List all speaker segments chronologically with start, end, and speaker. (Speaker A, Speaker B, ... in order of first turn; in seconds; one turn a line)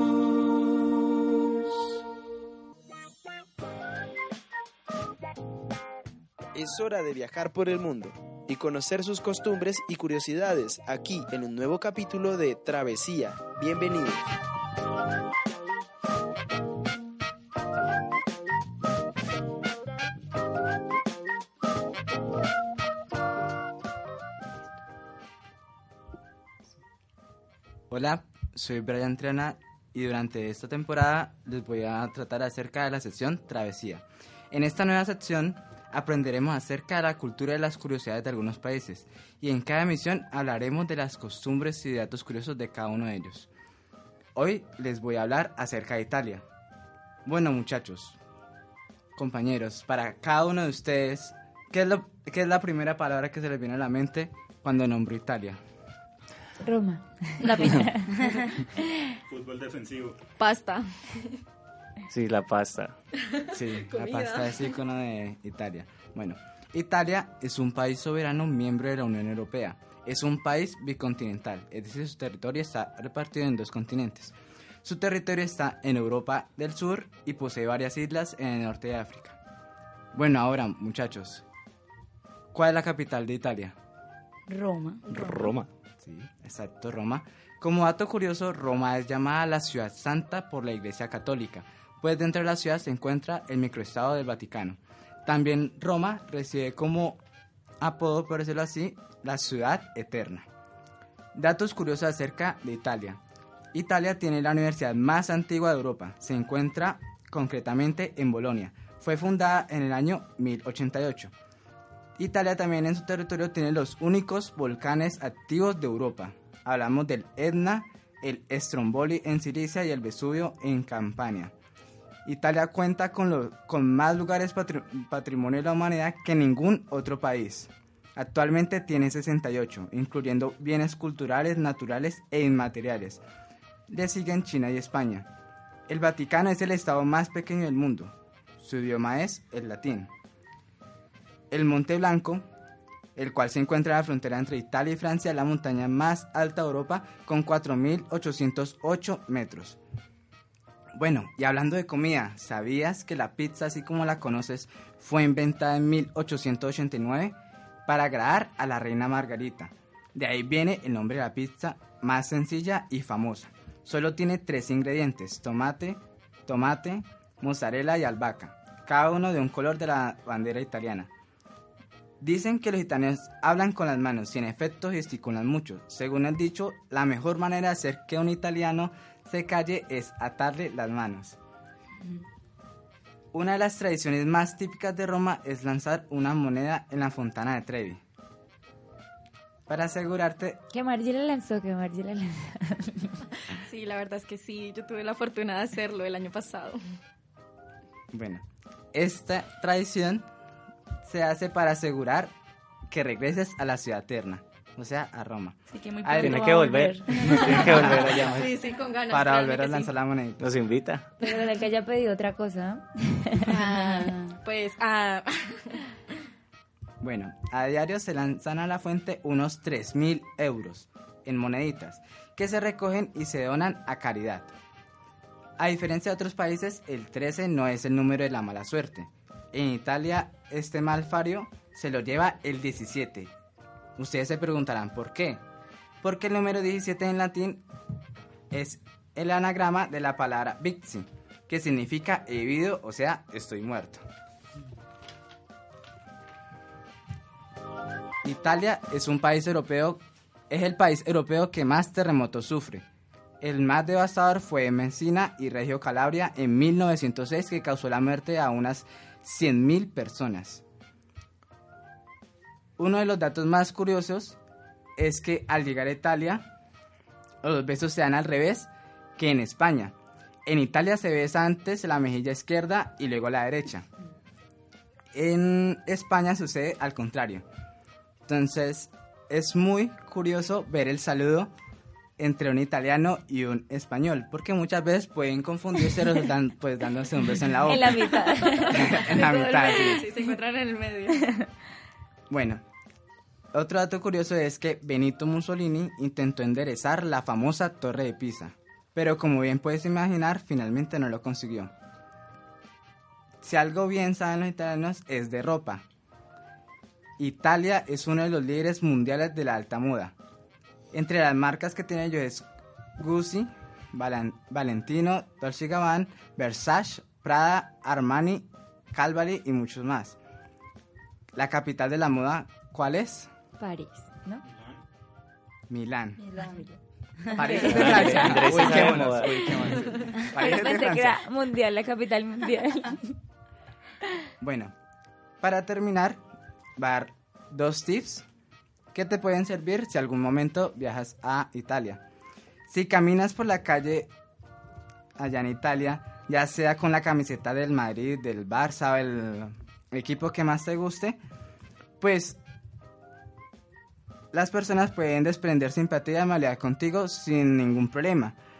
Speaker A: 6.5-14.3
Speaker B: 27.9-43.5
Speaker B: 44.4-46.4
Speaker B: 47.3-48.2
Speaker B: 49.2-55.6
Speaker C: 56.6-58.1
Speaker D: 57.4-58.5
Speaker E: 59.3-60.2
Speaker F: 60.4-61.3
Speaker G: 62.1-63.0
Speaker F: 63.3-64.7
Speaker B: 63.5-79.4
Speaker B: 80.1-81.4
Speaker B: 82.5-83.8
Speaker D: 84.5-85.5
Speaker G: 85.1-85.7
Speaker B: 86.0-97.2
Speaker B: 97.8-100.5
Speaker B: 101.3-103.2
Speaker B: 103.7-111.3
Speaker B: 112.2-121.5
Speaker B: 122.2-133.2
Speaker B: 133.9-135.3
Speaker B: 135.9-140.1
Speaker B: 141.5-142.4
Speaker B: 143.2-149.8
Speaker B: 151.0-171.1
Speaker B: 172.2-181.4
Speaker B: 183.3-188.0
Speaker B: 189.7-190.6
Speaker C: 190.7-193.2
Speaker F: 193.7-196.8
Speaker B: 198.1-200.3
Speaker B: 201.0-202.3
Speaker B: 202.9-208.5
Speaker D: 205.7-208.3
Speaker G: 206.2-208.5
Speaker F: 208.2-209.9
Speaker B: 209.1-210.5
Speaker G: 210.4-211.1
Speaker C: 211.2-213.6
Speaker F: 213.5-215.8
Speaker B: 217.0-224.5
Speaker B: 225.6-233.3
Speaker B: 234.0-235.4
Speaker B: 236.0-237.6
Speaker B: 238.5-244.0
Speaker B: 248.2-252.8
Speaker B: 253.4-260.6
Speaker B: 262.8-264.4
Speaker B: 265.0-266.5
Speaker B: 267.4-269.9
Speaker B: 270.5-273.9
Speaker B: 275.1-277.4
Speaker B: 278.3-281.5
Speaker B: 282.2-290.1
Speaker C: 287.7-289.1
Speaker F: 288.5-291.4
Speaker B: 292.3-292.6
Speaker B: 293.5-301.7
Speaker B: 303.4-305.9
Speaker B: 307.2-310.1
Speaker B: 310.9-312.5
Speaker B: 313.0-320.2
Speaker B: 321.4-323.3
Speaker C: 323.6-324.4
Speaker B: 325.7-326.2
Speaker C: 326.4-326.8
Speaker B: 327.3-331.2
Speaker C: 327.4-328.3
Speaker G: 327.6-329.8
Speaker E: 328.6-329.9
Speaker C: 330.2-333.0
Speaker B: 334.4-334.7
Speaker B: 335.4-336.2
Speaker B: 336.8-338.2
Speaker B: 338.9-342.0
Speaker B: 342.7-344.1
Speaker B: 345.2-351.2
Speaker B: 352.0-352.4
Speaker B: 354.3-358.4